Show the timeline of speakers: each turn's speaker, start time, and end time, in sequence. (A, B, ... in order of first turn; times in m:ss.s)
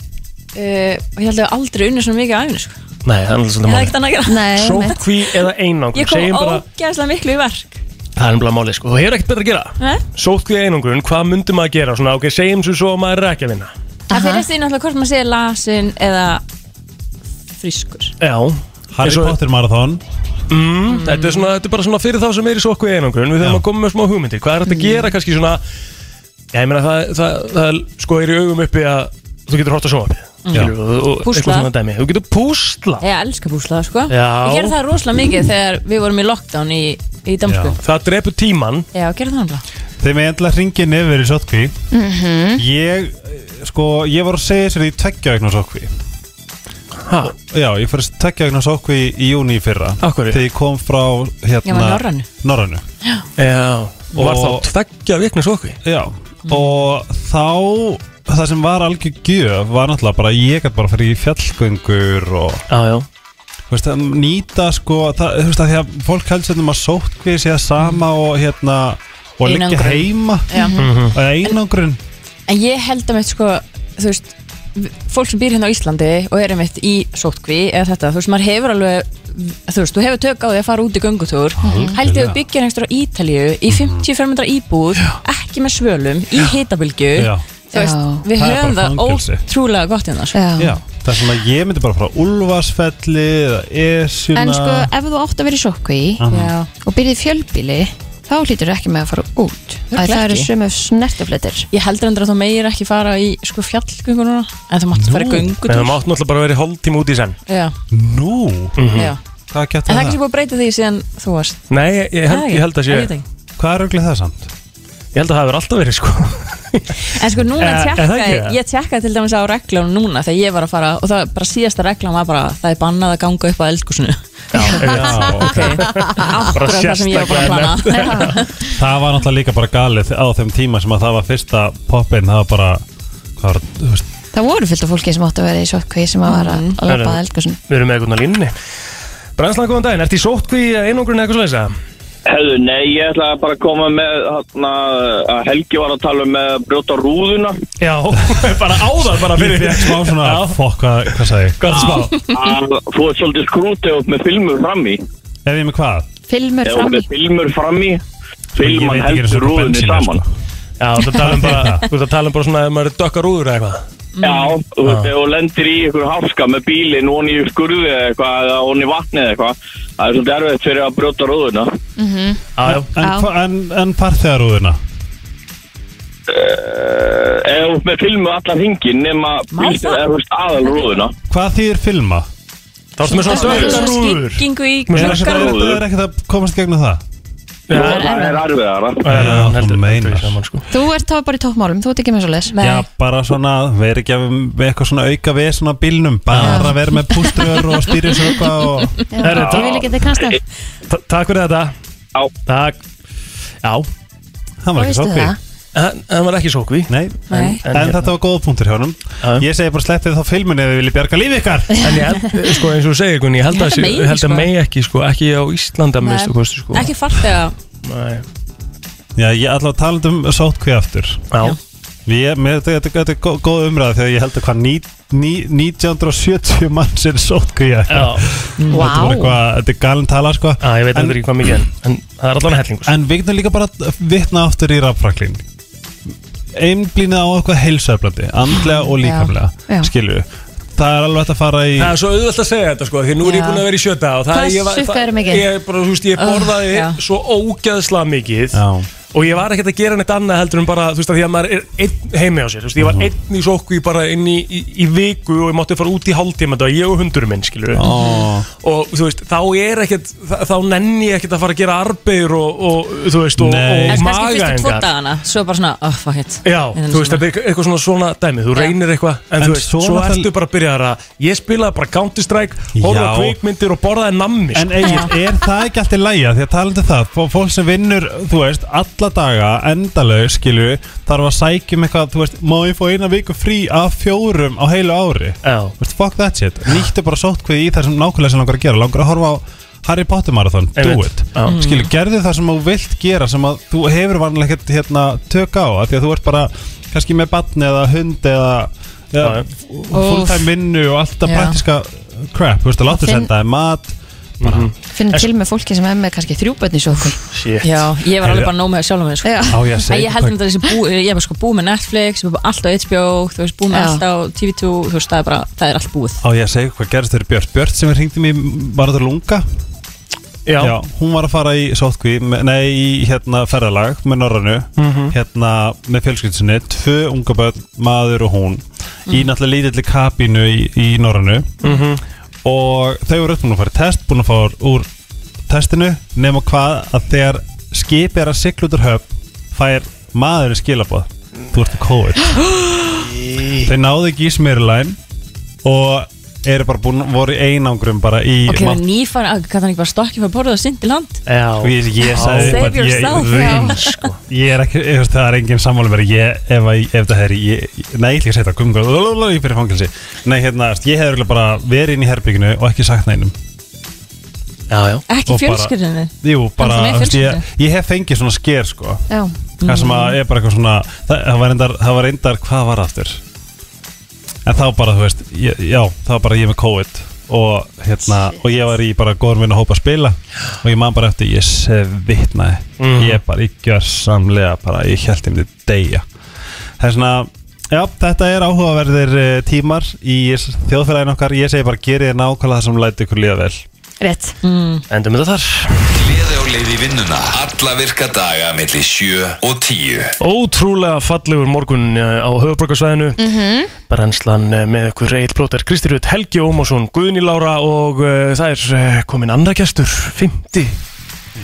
0:00.5-0:02.7 A
0:03.0-0:04.0 B
0:03.6-0:04.9 A
0:04.2-0:05.0 C
0:04.5-0:06.6 B
0:05.9-0:07.8 A
0:08.2-0:13.7 B
0:14.1-0:14.4 C
0:14.1-0:16.4 A
0:17.6-0:18.1 A
0:18.2-0:19.4 B
0:18.9-0:20.0 D
0:20.5-0:25.6 B
0:20.9-0:21.5 A
0:24.7-0:25.1 A
0:26.5-0:33.0 B
0:30.5-0:30.7 A
0:31.2-0:31.7 A
0:33.0-0:37.8 A
0:34.1-0:34.8 B
0:37.4-0:37.8 D
0:37.8-0:38.8 B
0:38.9-0:39.6 A
0:40.0-0:41.7 D
0:41.9-0:42.6 C
0:42.6-0:45.9 D
0:47.0-0:47.3 B
0:47.4-0:52.8 D
0:50.0-0:50.4 B
0:51.6-0:52.2 A
0:53.4-0:55.8 B
0:54.1-0:54.7 D
0:55.8-1:02.6 D
1:02.7-1:03.1 B
1:03.7-1:10.5 D
1:09.4-1:10.8 A
1:10.5-1:10.9 C
1:10.8-1:11.2 B
1:11.1-1:12.0 D
1:12.5-1:30.4 A
1:21.6-1:22.4 D
1:21.6-1:22.0 C
1:23.7-1:24.1 D
1:27.1-1:27.4 D
1:27.7-1:28.2 C
1:28.3-1:29.4 D
1:30.3-1:30.8 C
1:30.6-1:34.9 D
1:34.3-1:36.2 C
1:36.2-1:36.5 D
1:36.3-1:36.7 A
1:36.8-1:41.7 C
1:39.9-1:40.5 A
1:41.7-1:46.0 A
1:44.9-1:45.6 D
1:45.7-1:47.4 B
1:47.5-1:47.7 A
1:47.9-1:48.9 D
1:48.8-1:49.1 B
1:48.9-1:49.2 A
1:49.5-1:50.2 D
1:49.9-1:51.6 A
1:51.7-1:53.1 B
1:52.2-1:53.2 A
1:53.6-1:54.5 D
1:55.1-1:57.0 B
1:57.1-2:08.5 A
1:57.6-1:58.6 B
2:04.5-2:08.4 B
2:04.8-2:05.8 D
2:07.9-2:08.5 C
2:08.7-2:12.8 D
2:13.4-2:14.0 D
2:14.3-2:17.6 C
2:16.2-2:16.8 A
2:16.9-2:18.5 B
2:19.4-2:21.7 B
2:22.2-2:27.6 E
2:27.8-2:30.6 B
2:29.2-2:31.9 D
2:31.6-2:32.2 B
2:32.3-2:35.0 E
2:35.4-2:36.1 D
2:36.3-2:37.1 C
2:36.6-2:38.0 E
2:38.6-2:40.2 E
2:38.6-2:40.3 D
2:40.8-2:43.8 B
2:41.2-2:41.8 D
2:44.2-2:44.5 A
2:44.2-2:51.8 E
2:44.8-2:45.1 B
2:52.0-2:52.4 C
2:52.6-2:52.9 B
2:52.6-2:54.8 D
2:53.0-2:53.3 C
2:56.3-3:01.1 E
2:59.5-3:00.0 A
3:01.3-3:02.3 D
3:03.0-3:05.3 B
3:03.0-3:05.5 A
3:03.2-3:03.9 C
3:04.9-3:07.0 D
3:05.4-3:05.8 E
3:07.7-3:08.4 B
3:07.7-3:09.2 E
3:07.7-3:08.0 A
3:09.0-3:10.6 B
3:09.1-3:10.4 D
3:10.7-3:12.5 C
3:12.5-3:12.8 A
3:12.6-3:18.9 D
3:16.3-3:16.7 B
3:16.4-3:16.7 C
3:19.1-3:20.4 C
3:19.2-3:19.8 B
3:20.9-3:21.7 B
3:22.4-3:22.8 B
3:23.6-3:23.9 B
3:24.6-3:25.4 D
3:24.7-3:25.4 C
3:25.7-3:28.1 B
3:26.9-3:31.9 D
3:27.3-3:27.6 A
3:31.8-3:37.2 B
3:33.5-3:34.5 A
3:36.0-3:37.5 A
3:37.8-3:38.2 B
3:39.2-3:41.3 D
3:42.0-3:51.2 D
3:47.9-3:48.2 B
3:48.6-3:49.1 A
3:48.7-3:49.3 C
3:50.6-3:52.9 B
3:52.8-3:55.4 D
3:56.5-4:02.0 D
3:59.0-3:59.3 A
4:01.8-4:17.9 B
4:04.3-4:05.5 C
4:06.2-4:07.0 A
4:08.5-4:08.9 D
4:12.8-4:13.1 D
4:17.7-4:18.5 D
4:18.0-4:18.2 A
4:18.6-4:24.9 B
4:23.4-4:24.0 D
4:23.9-4:27.2 A
4:26.4-4:35.0 B
4:29.4-4:30.3 D
4:32.7-4:33.4 D
4:34.5-5:04.7 D
4:34.8-4:35.1 A
4:45.4-4:45.7 B
4:50.8-4:51.6 B
4:51.5-4:51.9 A
4:59.9-5:00.5 C
5:01.2-5:01.6 A
5:02.9-5:03.3 C
5:04.4-5:05.3 B
5:04.9-5:07.2 C
5:07.3-5:07.8 B
5:07.6-5:16.2 A
5:08.2-5:08.5 D
5:09.2-5:09.6 C
5:09.5-5:10.4 D
5:13.7-5:14.0 C
5:16.2-5:19.4 D
5:20.4-5:20.7 B
5:20.6-5:31.6 D
5:24.8-5:25.1 B
5:31.6-5:32.0 B
5:32.4-5:34.9 D
5:35.5-5:42.4 D
5:43.0-5:43.7 B
5:43.6-5:45.0 D
5:45.6-5:48.8 D
5:48.5-5:51.2 A
5:51.3-5:54.1 B
5:51.6-6:03.3 D
5:52.1-5:54.0 A
5:53.4-5:53.6 C
6:04.7-6:05.0 B
6:05.1-6:07.4 A
6:05.3-6:09.0 D
6:09.6-6:10.2 A
6:09.6-6:13.2 D
6:14.4-6:26.0 D
6:22.8-6:23.2 B
6:26.8-6:33.6 D
6:34.0-6:34.4 C
6:34.4-6:34.8 A
6:34.9-6:35.8 B
6:35.8-6:40.1 F
6:40.2-6:43.2 B
6:43.2-6:43.7 C
6:43.9-6:50.8 B